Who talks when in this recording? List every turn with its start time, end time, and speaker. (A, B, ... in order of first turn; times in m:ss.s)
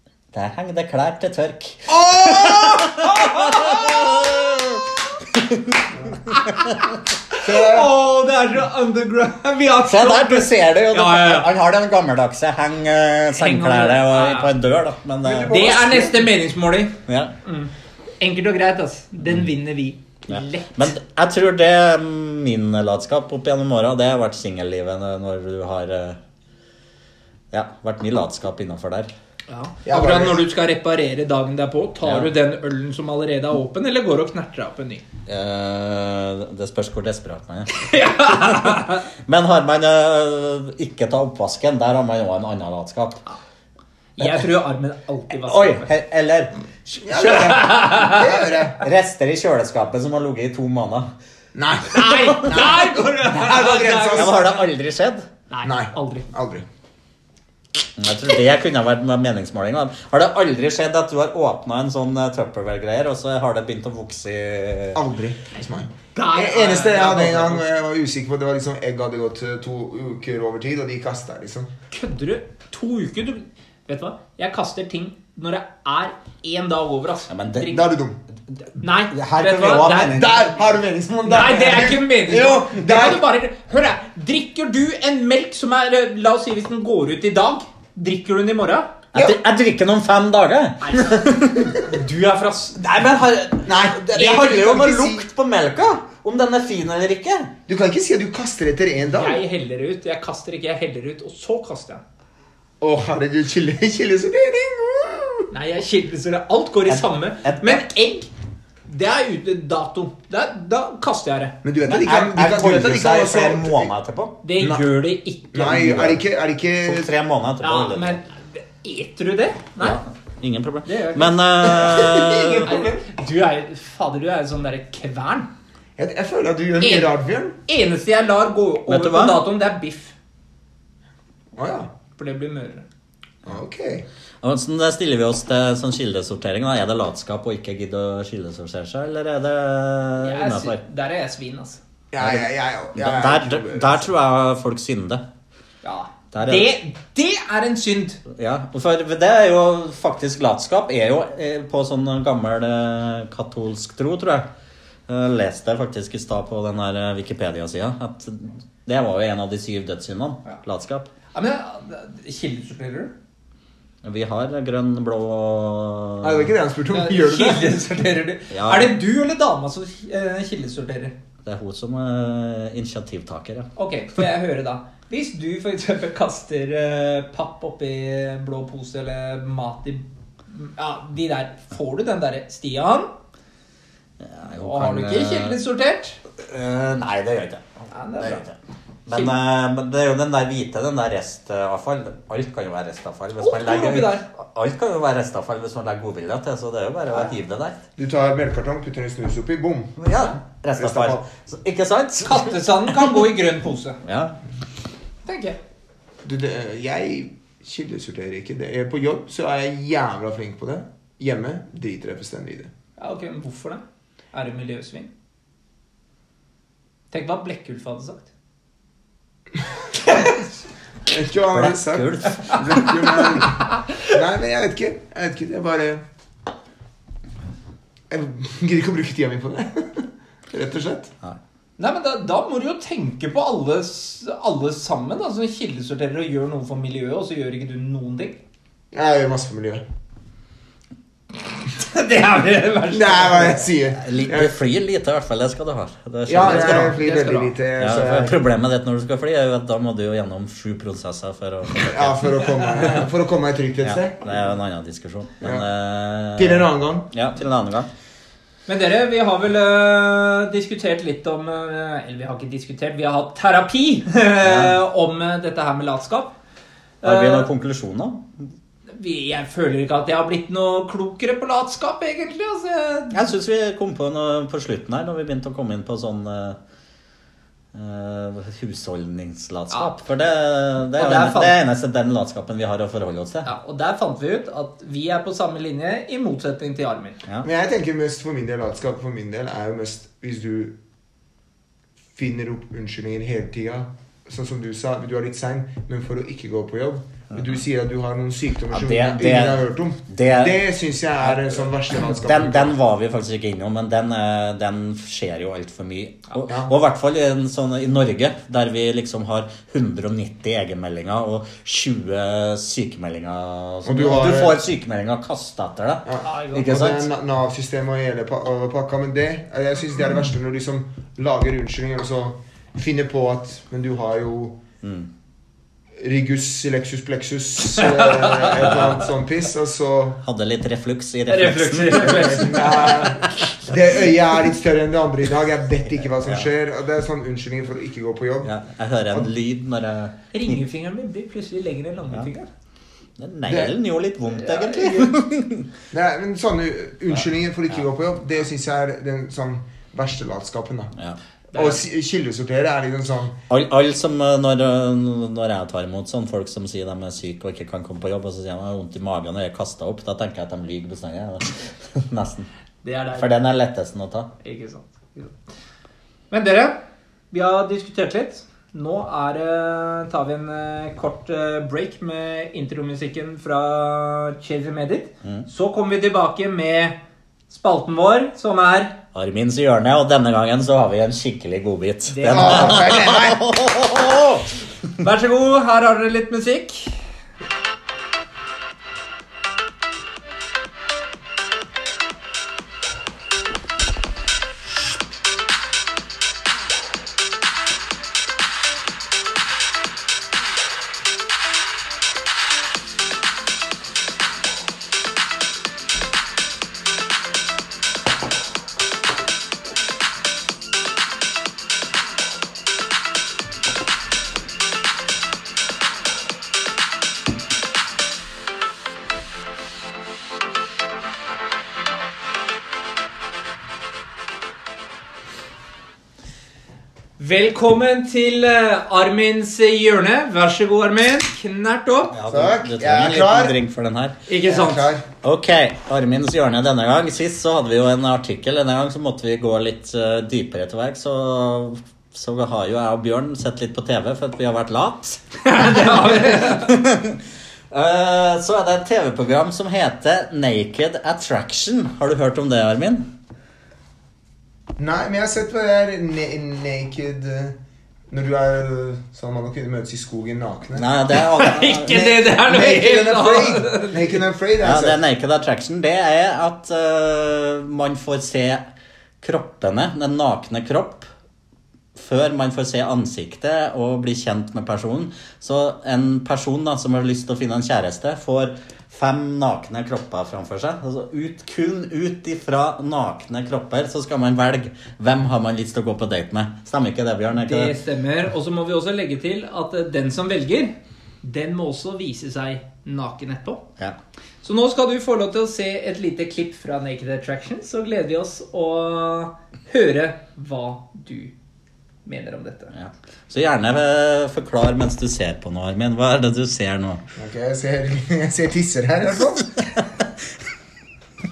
0:00.3-0:06.8 A
0:01.9-0:04.9 B
0:06.3-0:11.5 B
0:07.4-0:07.9 C
0:09.8-0:15.6 A
0:13.3-0:14.5 B
0:15.2-0:16.3 C
0:15.5-0:20.9 B
0:17.1-0:17.3 A
0:20.3-0:26.2 A
0:27.5-0:29.1 A
0:29.5-0:35.0 B
0:29.8-0:30.4 C
0:32.0-0:32.3 A
0:35.3-0:43.2 A
0:37.7-0:39.0 B
0:44.2-0:45.9 B
0:45.4-0:47.7 A
0:47.0-0:48.8 C
0:47.2-0:48.3 B
0:48.8-0:51.1 A
0:51.5-0:54.6 C
0:51.9-0:54.5 B
0:54.1-0:55.3 A
0:55.5-0:56.3 B
0:55.6-0:56.6 C
0:58.0-1:05.0 A
1:04.9-1:11.7 C
1:06.1-1:07.6 B
1:11.9-1:17.8 B
1:17.3-1:17.8 A
1:17.7-1:18.2 C
1:18.8-1:20.3 B
1:19.1-1:20.5 A
1:20.1-1:23.2 C
1:21.2-1:28.9 B
1:29.1-1:31.8 A
1:30.8-1:33.0 B
1:32.8-1:37.5 A
1:33.6-1:35.2 C
1:37.7-1:39.4 C
1:39.1-1:42.0 B
1:42.8-1:45.5 C
1:45.5-1:48.3 B
1:46.9-1:47.9 A
1:48.9-1:51.6 B
1:51.6-1:53.9 C
1:51.8-1:54.4 A
1:54.4-1:55.9 B
1:54.6-1:54.8 C
1:55.5-1:57.1 C
1:55.7-1:56.2 A
1:56.8-1:58.2 A
1:57.6-2:00.0 B
1:59.8-2:02.7 A
2:00.8-2:01.4 B
2:01.6-2:03.0 C
2:02.6-2:05.5 B
2:06.0-2:07.6 C
2:06.8-2:07.1 B
2:07.6-2:10.1 B
2:08.9-2:09.4 A
2:11.6-2:11.9 C
2:12.2-2:12.8 B
2:13.4-2:14.0 C
2:14.4-2:20.8 A
2:20.2-2:21.8 B
2:22.1-2:24.1 C
2:22.2-2:25.2 A
2:25.8-2:28.2 B
2:26.3-2:26.7 A
2:28.3-2:34.5 A
2:35.1-2:41.1 A
2:41.3-2:43.1 B
2:44.0-2:46.5 A
2:46.2-2:47.8 C
2:46.9-2:51.1 B
2:48.5-2:49.0 A
2:51.4-2:53.7 A
2:53.8-3:03.1 B
3:04.2-3:05.6 A
3:04.5-3:06.2 B
3:06.4-3:17.8 A
3:07.9-3:08.4 B
3:13.4-3:14.2 B
3:18.0-3:20.0 C
3:20.0-3:23.2 A
3:20.8-3:21.2 C
3:22.2-3:24.0 B
3:24.0-3:24.4 A
3:25.2-3:25.6 B
3:26.2-3:32.7 C
3:33.0-3:33.8 B
3:34.3-3:35.1 B
3:37.1-3:38.3 B
3:40.0-3:40.5 B
3:41.0-3:46.0 C
3:41.5-3:43.3 A
3:48.1-3:51.1 C
3:51.8-3:58.4 B
3:58.9-3:59.8 C
4:01.7-4:03.6 B
4:02.9-4:04.5 C
4:04.0-4:07.0 A
4:06.3-4:08.4 C
4:06.4-4:07.5 B
4:07.8-4:12.8 A
4:11.8-4:14.4 C
4:13.8-4:17.9 A
4:15.4-4:15.6 C
4:16.4-4:17.1 C
4:18.7-4:26.3 B
4:24.4-4:24.8 A
4:27.0-4:27.5 B
4:27.0-4:28.3 A
4:28.9-4:33.2 B
4:33.1-4:36.6 A
4:37.7-4:43.5 A
4:41.0-4:41.6 B
4:43.4-4:47.2 B
4:47.4-4:50.8 C
4:52.2-5:02.8 C
4:58.7-5:00.6 A
5:02.0-5:17.1 A
5:06.5-5:06.7 C
5:13.8-5:14.7 C
5:16.0-5:24.6 C
5:16.2-5:16.6 B
5:24.8-5:25.1 A
5:26.0-5:30.2 C
5:27.8-5:28.6 B
5:28.6-5:29.0 A
5:30.2-5:33.0 A
5:31.3-5:33.2 B
5:32.2-5:38.5 C
5:38.4-5:40.6 A
5:40.3-5:42.5 B
5:43.2-5:45.7 A
5:43.5-5:43.7 C
5:44.3-5:45.1 B
5:45.9-5:50.9 C
5:51.5-5:51.8 B
5:51.5-5:53.3 C
5:53.5-6:02.5 A
6:02.8-6:03.3 B
6:03.1-6:04.3 A
6:04.4-6:05.3 B
6:06.3-6:06.8 B
6:07.3-6:17.0 B
6:17.5-6:19.0 B
6:19.1-6:24.4 A
6:22.1-6:22.9 B
6:22.3-6:23.5 C
6:25.0-6:27.0 B
7:07.2-7:12.2 B
7:12.1-7:14.2 A
7:12.3-7:13.6 C
7:14.3-7:14.9 B
7:14.4-7:15.0 C
7:15.2-7:27.2 A
7:25.4-7:26.7 B
7:27.7-7:33.0 A
7:34.8-7:37.6 C
7:38.1-7:40.9 C
7:40.8-7:42.1 A
7:41.2-7:44.2 B
7:41.9-7:45.0 C
7:44.6-7:48.6 A
7:49.2-7:51.1 A
7:52.0-8:07.8 A
8:07.4-8:13.6 B
8:14.4-8:21.3 B
8:22.0-8:22.7 B
8:22.7-8:27.0 A
8:27.2-8:29.5 C